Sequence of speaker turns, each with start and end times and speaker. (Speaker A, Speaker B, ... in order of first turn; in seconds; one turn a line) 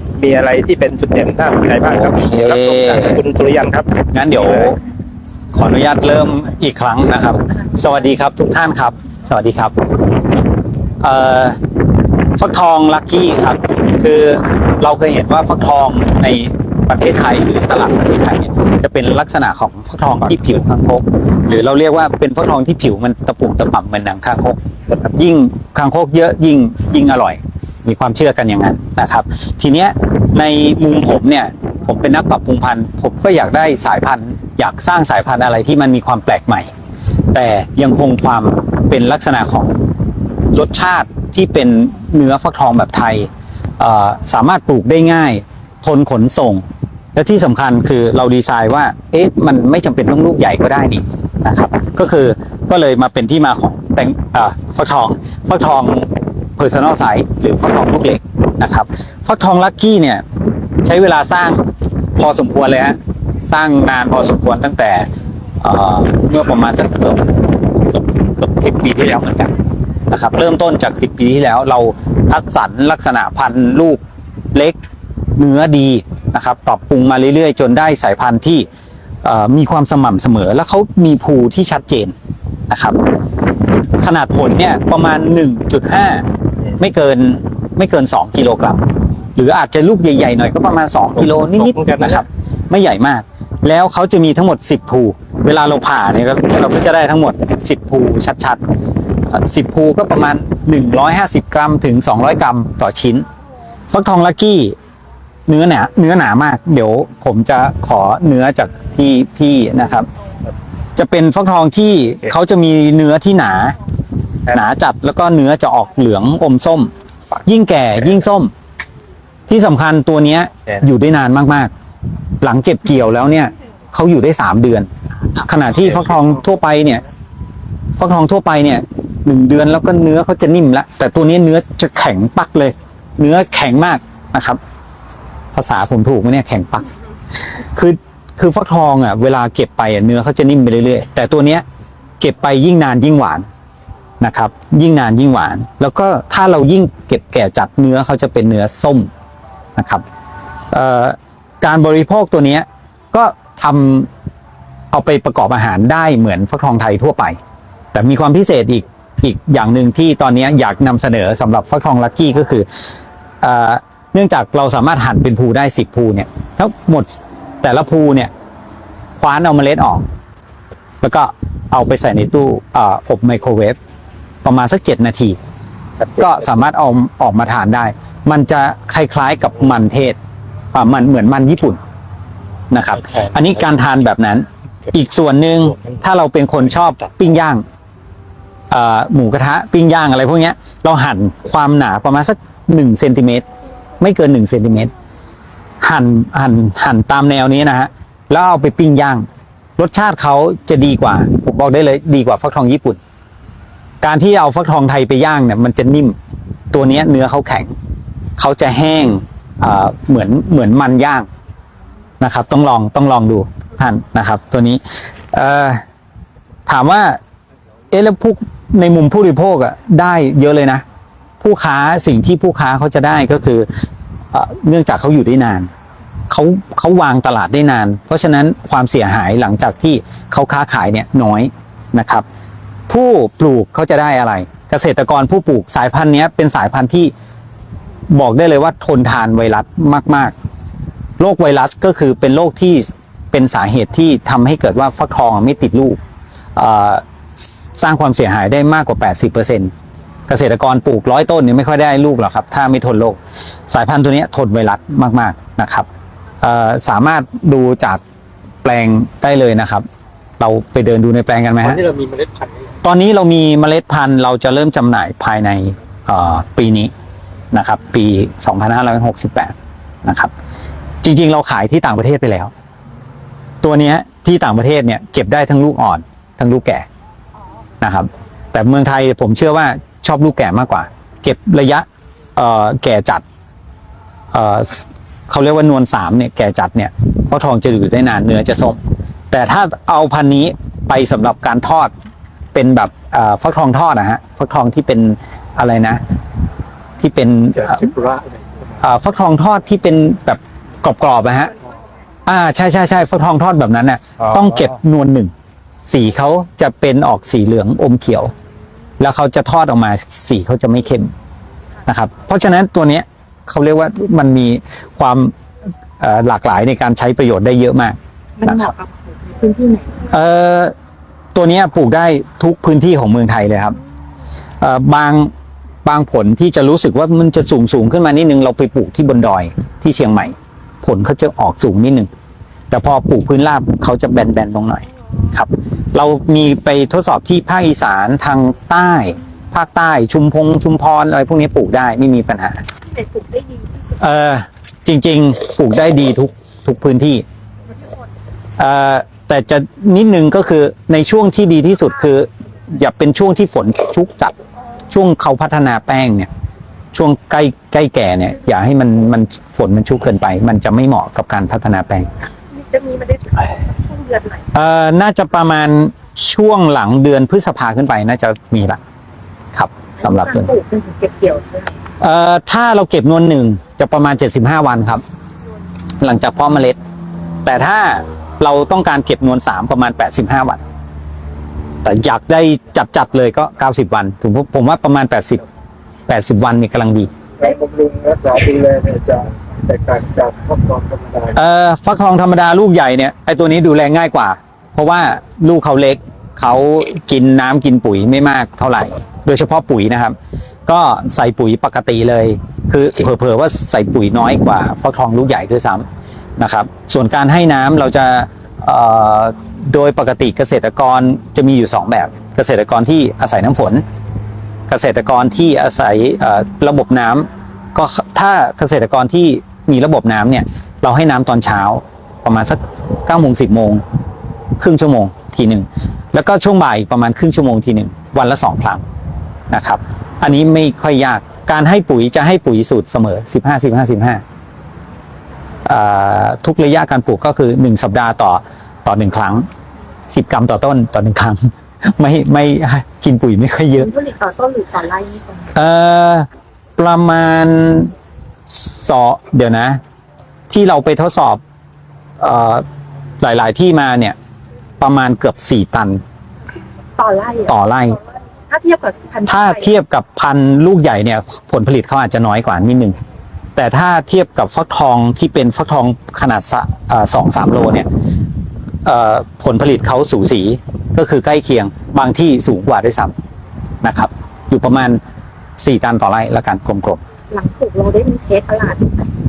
Speaker A: 0.2-4.8
Speaker B: 1.9-3.2
Speaker B: 4.1-4.8
Speaker B: 5.5-9.8
Speaker B: 11.0-11.6
Speaker B: 12.4-36.7
Speaker B: 37.3-39.8
Speaker B: 40.5-60.2
Speaker B: 60.9-61.6
Speaker B: 62.2-65.1
Speaker B: 65.6-69.5
Speaker B: 70.1-74.0
Speaker B: 75.4-78.7
Speaker B: 79.2-82.1
Speaker B: 82.7-83.0
Speaker B: 84.0-86.3
Speaker B: 86.8-88.8
Speaker B: 89.4-98.6
Speaker A: 91.2-92.2
Speaker B: 99.3-103.3
Speaker B: 103.9-104.8
Speaker B: 105.5-110.1
Speaker B: 111.0-113.8
Speaker B: 114.5-116.9
Speaker B: 117.5-118.5
Speaker B: 119.5-121.7
Speaker B: 122.4-127.0
Speaker B: 128.0-134.6
Speaker B: 135.6-136.9
Speaker B: 137.8-141.6
Speaker B: 142.2-143.5
Speaker B: 144.2-149.1
Speaker B: 149.8-150.0
Speaker B: 150.7-154.1
Speaker B: 154.9-157.4
Speaker B: 157.9-162.7
Speaker B: 163.4-168.3
Speaker B: 169.2-170.1
Speaker B: 171.0-173.8
Speaker B: 174.4-175.4
Speaker A: 176.0-176.4
Speaker B: 176.2-180.2
Speaker B: 180.7-181.8
Speaker B: 182.7-187.6
Speaker A: 183.0-183.4
Speaker B: 188.7-193.4
Speaker B: 194.0-194.9
Speaker B: 195.8-199.3
Speaker B: 199.8-203.0
Speaker B: 204.0-206.2
Speaker B: 206.7-207.7
Speaker B: 208.4-211.3
Speaker B: 212.2-214.8
Speaker B: 215.3-215.8
Speaker B: 216.7-217.2
Speaker B: 217.9-220.8
Speaker B: 221.4-223.7
Speaker B: 224.3-225.7
Speaker B: 226.3-232.2
Speaker B: 232.9-237.1
Speaker B: 238.1-240.3
Speaker B: 241.2-246.0
Speaker B: 246.6-249.7
Speaker B: 250.3-253.2
Speaker B: 253.7-255.9
Speaker B: 256.4-258.0
Speaker B: 258.6-259.9
Speaker B: 260.4-261.9
Speaker A: 262.1-262.4
Speaker B: 262.8-266.9
Speaker B: 267.5-270.3
Speaker B: 271.0-272.5
Speaker B: 273.6-276.9
Speaker B: 277.8-283.2
Speaker B: 284.3-288.8
Speaker B: 289.3-291.9
Speaker B: 292.5-296.0
Speaker B: 297.0-297.9
Speaker B: 298.8-301.5
Speaker B: 302.3-305.3
Speaker A: 304.2-304.7
Speaker B: 305.9-308.3
Speaker B: 309.0-311.1
Speaker B: 311.9-315.3
Speaker B: 316.0-318.7
Speaker C: 318.4-320.1
Speaker B: 320.1-320.8
Speaker B: 321.4-323.8
Speaker B: 324.6-325.3
Speaker B: 325.9-332.1
Speaker B: 332.7-342.6
Speaker C: 342.9-343.9
Speaker B: 344.0-347.2
Speaker B: 348.6-354.4
Speaker B: 354.9-356.3
Speaker B: 356.9-362.2
Speaker C: 362.5-364.4
Speaker B: 364.5-368.8
Speaker B: 369.5-370.5
Speaker C: 370.0-371.7
Speaker B: 372.0-375.0
Speaker B: 376.0-376.8
Speaker B: 377.4-380.6
Speaker B: 381.8-385.4
Speaker B: 386.1-387.1
Speaker D: 387.4-391.3
Speaker B: 391.3-400.2
Speaker B: 400.7-405.9
Speaker B: 406.4-413.8
Speaker B: 414.7-423.8
Speaker B: 424.6-428.8
Speaker B: 429.5-434.2
Speaker B: 435.6-439.5
Speaker B: 440.1-443.9
Speaker C: 443.8-445.6
Speaker B: 445.6-447.9
Speaker B: 448.5-449.8
Speaker B: 450.5-451.4
Speaker B: 452.2-452.6
Speaker B: 453.2-454.1
Speaker B: 454.8-456.0
Speaker C: 457.0-457.6
Speaker B: 457.5-458.0
Speaker C: 458.5-459.7
Speaker B: 459.3-463.0
Speaker B: 463.6-467.9
Speaker B: 468.9-473.1
Speaker B: 473.8-475.0
Speaker B: 475.6-477.0
Speaker C: 477.3-479.1